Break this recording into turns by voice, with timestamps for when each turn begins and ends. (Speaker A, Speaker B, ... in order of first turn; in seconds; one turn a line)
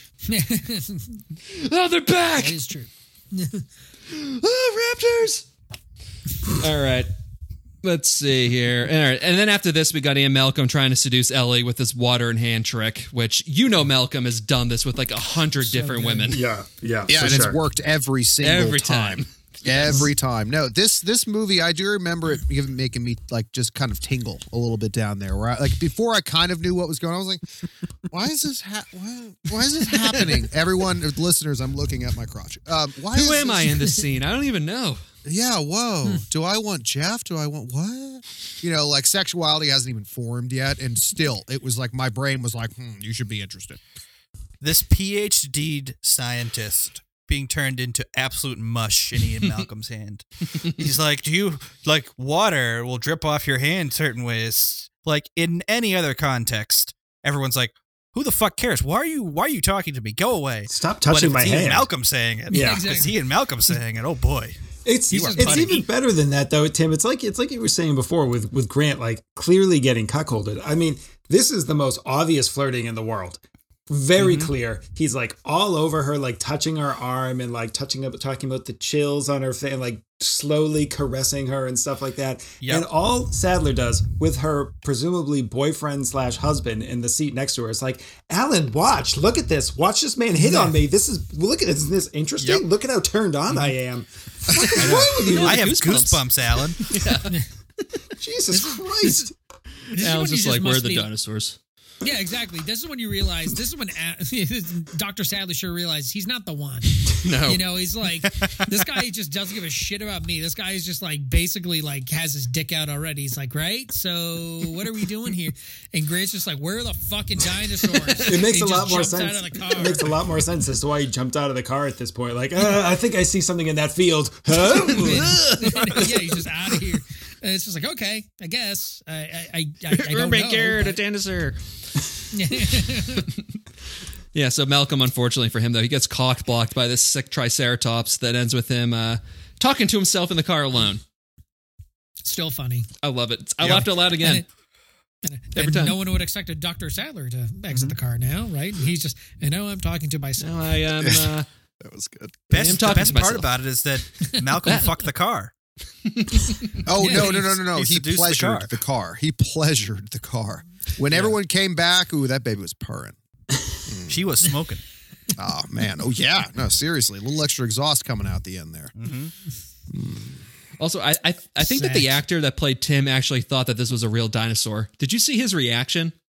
Speaker A: 0.3-1.2
Speaker B: 1.5-2.6
Speaker A: 2.4-3.6
Speaker B: 4.1-5.5
Speaker B: 6.5-7.1
Speaker B: 7.8-16.4
Speaker A: 15.7-16.4
Speaker C: 16.3-17.6
Speaker D: 17.1-27.4
Speaker B: 18.4-20.0
Speaker D: 28.1-33.8
Speaker B: 33.1-35.0
Speaker D: 35.2-43.8
Speaker E: 44.6-64.6
Speaker C: 60.7-61.9
Speaker A: 62.5-63.1
Speaker C: 62.5-62.9
Speaker C: 64.8-95.7
Speaker A: 65.1-65.8
Speaker E: 65.1-65.8
Speaker E: 74.2-74.5
Speaker E: 82.6-82.9
Speaker A: 90.4-90.8
Speaker E: 92.4-92.7
Speaker B: 94.7-96.2
Speaker E: 94.7-97.0
Speaker B: 96.8-97.9
Speaker C: 98.2-99.3
Speaker A: 98.5-99.3
Speaker A: 99.9-101.1
Speaker B: 99.9-101.6
Speaker A: 102.0-120.1
Speaker B: 107.1-107.7
Speaker B: 117.9-118.4
Speaker C: 118.3-125.4
Speaker A: 124.8-131.0
Speaker B: 125.0-126.3
Speaker B: 129.9-131.6
Speaker A: 132.3-133.3
Speaker B: 134.3-141.0
Speaker A: 142.2-142.9
Speaker B: 143.0-144.5
Speaker A: 144.1-144.4
Speaker A: 145.2-150.8
Speaker B: 145.6-146.0
Speaker B: 150.4-151.5
Speaker D: 151.0-152.5
Speaker E: 152.5-155.5
Speaker B: 152.5-153.5
Speaker B: 154.6-154.9
Speaker B: 156.1-156.8
Speaker D: 156.8-163.2
Speaker A: 157.0-157.5
Speaker E: 157.1-158.7
Speaker D: 163.9-164.3
Speaker E: 164.1-164.8
Speaker D: 165.4-168.9
Speaker E: 169.0-169.3
Speaker D: 169.9-170.4
Speaker B: 170.8-176.1
Speaker A: 171.6-172.1